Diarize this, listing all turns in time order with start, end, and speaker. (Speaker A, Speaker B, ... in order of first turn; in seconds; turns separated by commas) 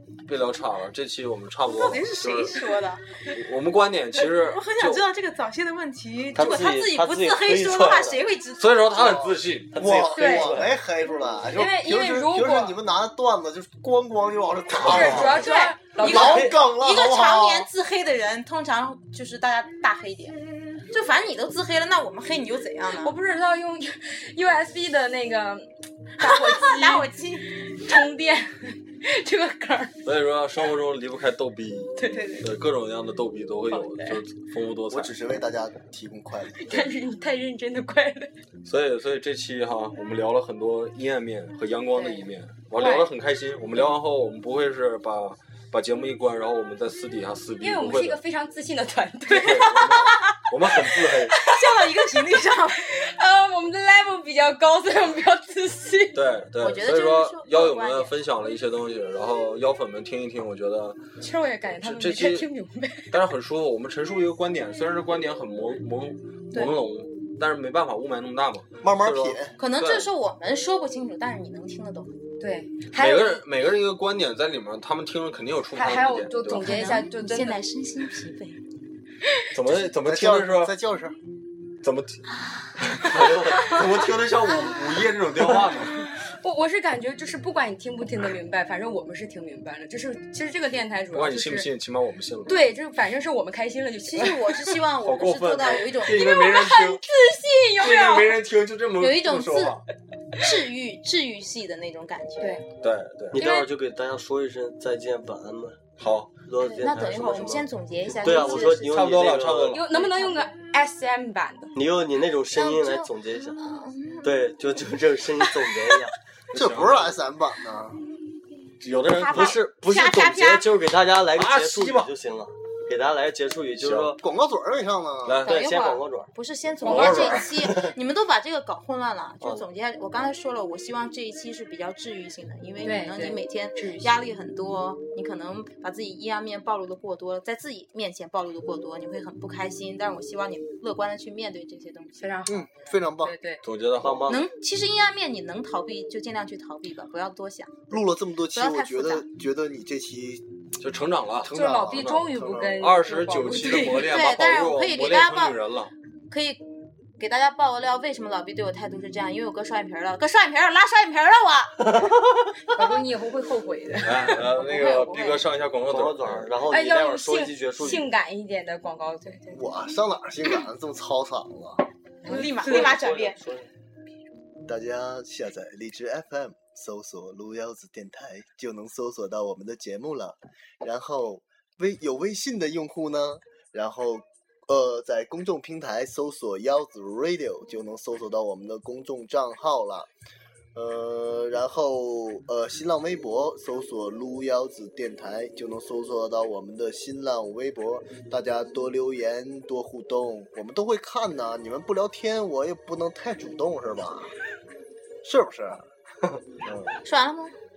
Speaker A: 0.3-2.6, Speaker B: 1.6-3.3, Speaker A: 3.3-5.0, Speaker B: 4.2-9.3, Speaker C: 6.3-8.2, Speaker A: 8.6-9.8, Speaker C: 9.7-10.8, Speaker D: 9.8-17.7, Speaker E: 10.2-10.5, Speaker E: 11.5-12.8, Speaker E: 14.8-16.5, Speaker B: 15.2-20.4, Speaker C: 16.0-16.6, Speaker B: 20.9-23.1, Speaker E: 23.0-25.7, Speaker E: 26.2-29.9, Speaker B: 26.2-27.5, Speaker A: 30.0-35.1, Speaker E: 32.0-32.4, Speaker E: 33.7-34.2, Speaker D: 34.9-36.9, Speaker E: 36.6-38.3, Speaker A: 38.6-48.2, Speaker E: 41.9-43.1, Speaker E: 47.6-52.2, Speaker A: 49.3-51.4, Speaker B: 51.4-52.9, Speaker E: 52.8-56.2, Speaker A: 56.1-61.0, Speaker B: 56.6-58.2, Speaker E: 61.2-63.1, Speaker A: 61.8-62.5, Speaker A: 63.1-70.1, Speaker D: 68.8-69.5, Speaker B: 69.6-72.2, Speaker E: 72.4-73.4, Speaker A: 73.0-76.9, Speaker E: 75.7-77.6, Speaker B: 76.6-78.5, Speaker A: 79.5-80.7, Speaker D: 79.7-81.2, Speaker A: 81.8-82.2, Speaker A: 82.8-86.1, Speaker E: 85.6-91.7, Speaker A: 91.1-92.6, Speaker E: 92.5-94.7, Speaker B: 94.0-96.3, Speaker A: 95.0-97.0, Speaker E: 96.0-98.3, Speaker A: 97.8-99.8, Speaker B: 99.0-99.8, Speaker B: 100.4-102.6, Speaker A: 102.8-103.5, Speaker C: 103.3-105.8, Speaker E: 103.3-103.7, Speaker A: 106.0-106.3, Speaker C: 106.4-109.8, Speaker B: 106.6-108.9, Speaker A: 108.4-109.8, Speaker E: 109.7-111.7, Speaker B: 109.9-110.5, Speaker C: 111.7-113.6, Speaker B: 112.5-114.2, Speaker C: 114.2-116.1, Speaker A: 116.5-117.2, Speaker D: 116.5-118.0, Speaker A: 118.8-119.7, Speaker B: 119.2-120.7, Speaker C: 119.2-124.2, Speaker A: 121.3-122.1, Speaker A: 123.8-124.2, Speaker D: 124.2-125.4, Speaker A: 125.2-125.5, Speaker B: 125.4-142.2, Speaker C: 125.5-126.3, Speaker A: 126.8-127.5, Speaker C: 126.8-127.9, Speaker E: 126.9-127.3, Speaker E: 132.8-134.2, Speaker E: 142.2-143.6, Speaker D: 142.4-143.3, Speaker A: 143.6-144.4, Speaker C: 144.0-144.5, Speaker B: 144.3-148.0, Speaker D: 147.9-150.4, Speaker B: 148.5-149.2, Speaker A: 150.8-155.9, Speaker E: 151.5-154.1, Speaker D: 151.5-152.8, Speaker B: 154.0-155.6, Speaker B: 156.3-156.6, Speaker B: 157.2-162.1, Speaker E: 162.7-164.4, Speaker A: 164.0-166.5, Speaker B: 164.4-165.5, Speaker C: 165.9-168.0, Speaker E: 166.7-169.6, Speaker D: 169.5-171.8, Speaker B: 172.2-173.4, Speaker E: 172.3-172.9, Speaker C: 172.3-173.7, Speaker D: 174.7-190.1, Speaker D: 190.7-204.3, Speaker D: 205.2-205.8, Speaker D: 206.6-206.9, Speaker B: 207.0-207.6